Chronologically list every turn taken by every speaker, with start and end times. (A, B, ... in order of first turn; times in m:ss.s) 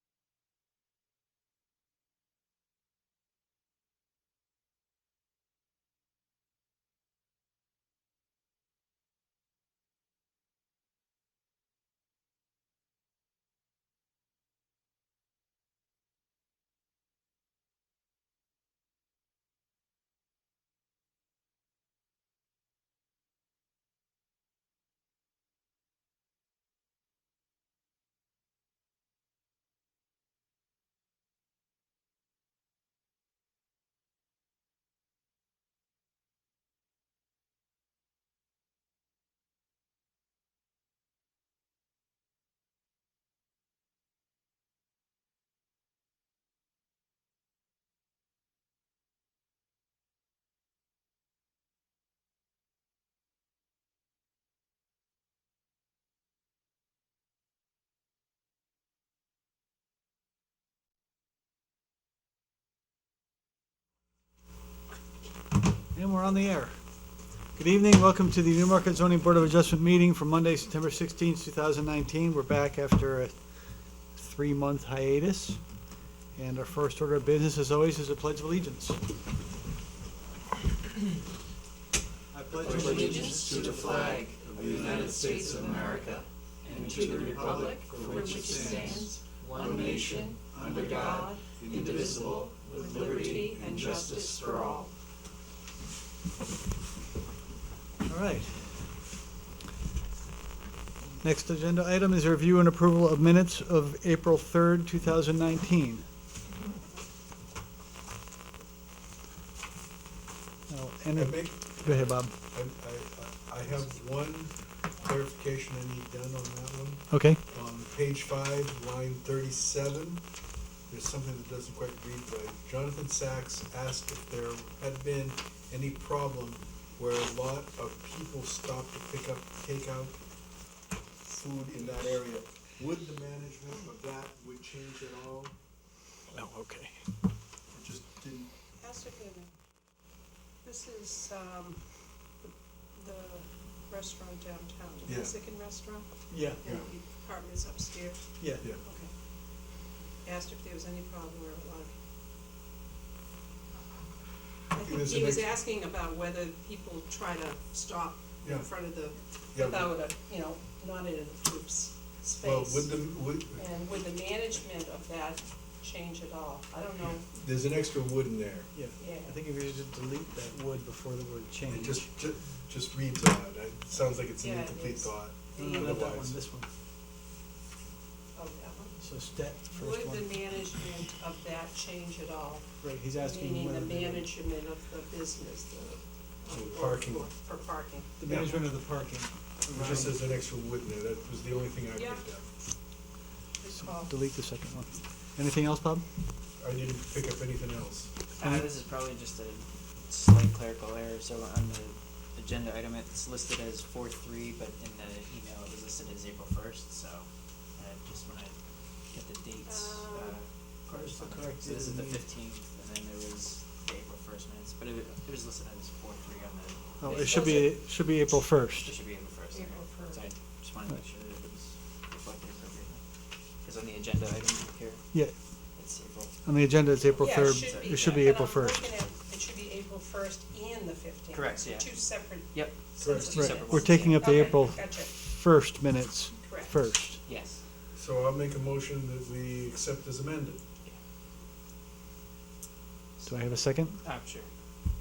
1:05.9-1:06.8 A
1:07.6-1:13.4 A
1:14.2-1:15.6 A
1:16.4-1:19.0 A
1:22.3-1:23.4 A
1:22.6-1:34.8 B
1:22.6-1:34.9 C
1:22.7-1:26.2 D
1:26.8-1:28.8 D
1:26.9-1:29.1 A
1:29.6-1:34.4 D
1:30.6-1:32.5 A
1:38.0-1:38.8 A
1:41.2-1:46.0 A
1:50.7-1:52.3 A
1:51.2-2:00.2 D
1:57.1-1:57.4 A
2:00.9-2:10.2 D
2:11.3-2:15.5 D
2:16.3-2:17.0 A
2:17.7-2:18.5 D
2:18.8-2:19.5 C
2:20.6-2:21.8 C
2:23.0-2:26.1 C
2:25.1-2:25.3 D
2:26.3-2:26.6 A
2:26.6-2:28.2 C
2:28.4-2:28.7 A
2:28.8-2:29.1 C
2:30.2-2:31.9 C
2:34.7-2:35.5 D
2:34.7-2:43.0 C
2:38.4-2:38.7 D
2:39.5-2:39.9 D
2:42.4-2:43.6 D
2:43.5-2:47.3 C
2:47.4-2:48.7 D
2:48.7-2:52.1 A
2:49.0-2:49.4 C
2:51.7-2:56.4 D
2:54.4-2:56.0 C
2:55.6-2:56.7 A
2:58.4-2:58.9 C
2:59.0-3:00.3 A
2:59.7-3:08.1 C
3:02.8-3:04.3 A
3:06.5-3:07.3 D
3:08.2-3:10.2 A
3:08.3-3:08.6 D
3:09.7-3:12.4 D
3:11.9-3:12.3 C
3:13.6-3:14.1 C
3:13.7-3:16.0 A
3:16.6-3:18.1 D
3:18.4-3:28.6 B
3:29.1-3:37.6 B
3:29.6-3:30.4 C
3:30.9-3:32.2 A
3:37.0-3:38.9 A
3:37.1-3:37.8 C
3:38.8-3:43.0 B
3:39.5-3:40.2 C
3:43.6-3:45.0 B
3:45.8-3:46.4 B
3:46.4-3:48.8 A
3:47.0-3:48.2 B
3:47.2-3:55.1 C
3:51.3-3:51.9 B
3:52.5-3:54.5 B
3:53.0-3:53.4 D
3:53.2-3:57.2 A
3:56.5-3:56.7 C
3:57.2-3:57.6 B
3:58.0-4:00.6 D
4:03.2-4:04.0 A
4:04.0-4:04.5 B